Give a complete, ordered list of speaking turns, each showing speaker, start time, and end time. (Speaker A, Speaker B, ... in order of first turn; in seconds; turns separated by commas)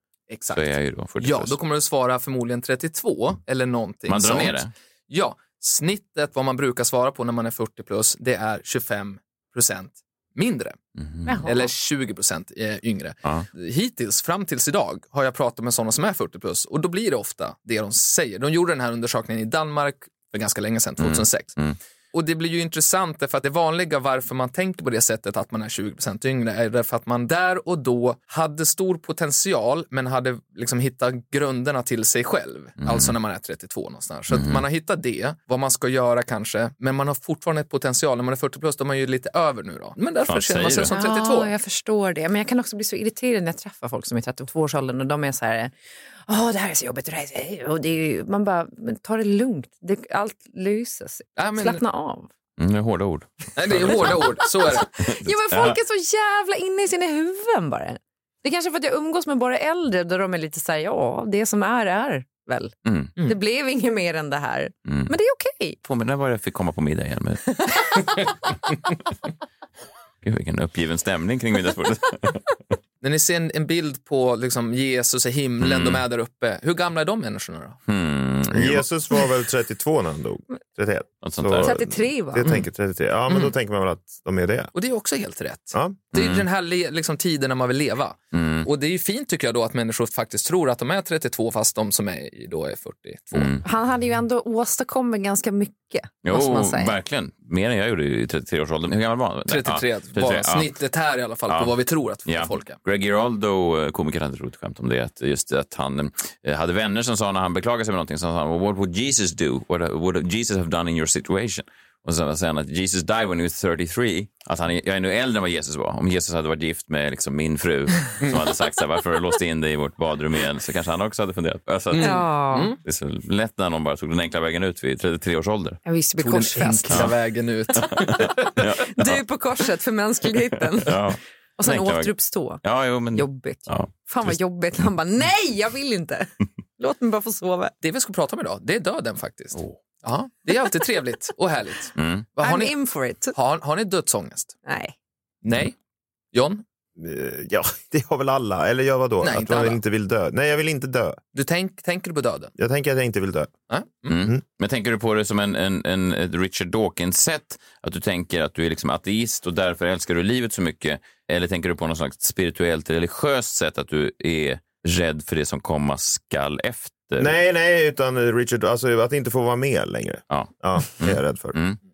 Speaker A: 0.3-4.6, Speaker B: 0.5-1.6, Speaker B: 4.1-4.7, Speaker A: 5.1-10.8, Speaker B: 11.0-11.4, Speaker C: 11.3-11.7, Speaker A: 11.4-21.6, Speaker B: 21.0-21.8, Speaker A: 22.1-41.5, Speaker B: 32.8-33.1, Speaker B: 34.3-34.6, Speaker B: 40.3-40.9, Speaker C: 40.9-45.7, Speaker C: 46.3-52.3, Speaker A: 51.4-51.8, Speaker B: 52.6-54.2, Speaker A: 53.6-55.0, Speaker C: 55.0-65.8, Speaker B: 55.5-55.8, Speaker B: 62.9-63.1, Speaker B: 64.9-65.1, Speaker B: 65.8-67.5, Speaker C: 67.6-68.2, Speaker B: 70.2-72.4, Speaker A: 73.0-77.8, Speaker B: 75.6-76.0, Speaker B: 77.9-78.9, Speaker D: 78.5-84.7, Speaker B: 81.2-81.8, Speaker C: 81.6-82.5, Speaker A: 83.3-83.5, Speaker A: 84.7-93.6, Speaker D: 85.7-86.0, Speaker B: 86.1-86.5, Speaker B: 88.3-88.7, Speaker B: 93.3-93.6, Speaker C: 93.6-97.0, Speaker B: 96.2-100.7, Speaker A: 99.5-102.8, Speaker B: 101.5-101.7, Speaker B: 102.3-122.3, Speaker A: 121.9-122.8, Speaker C: 122.0-122.7, Speaker B: 122.8-125.8, Speaker C: 125.8-127.1, Speaker A: 126.2-128.7, Speaker B: 126.9-127.2, Speaker B: 127.9-129.0, Speaker C: 128.9-131.0, Speaker B: 130.8-134.3, Speaker C: 131.6-137.7, Speaker A: 137.8-142.8, Speaker B: 142.0-142.3, Speaker C: 142.4-143.3, Speaker A: 143.3-144.6, Speaker C: 144.7-144.9, Speaker A: 145.4-145.8, Speaker A: 146.3-146.6, Speaker D: 147.0-151.2, Speaker A: 149.2-149.8, Speaker A: 151.3-152.5, Speaker D: 152.6-153.5, Speaker A: 153.7-154.2, Speaker B: 154.1-167.3, Speaker D: 167.2-171.6, Speaker B: 170.3-171.8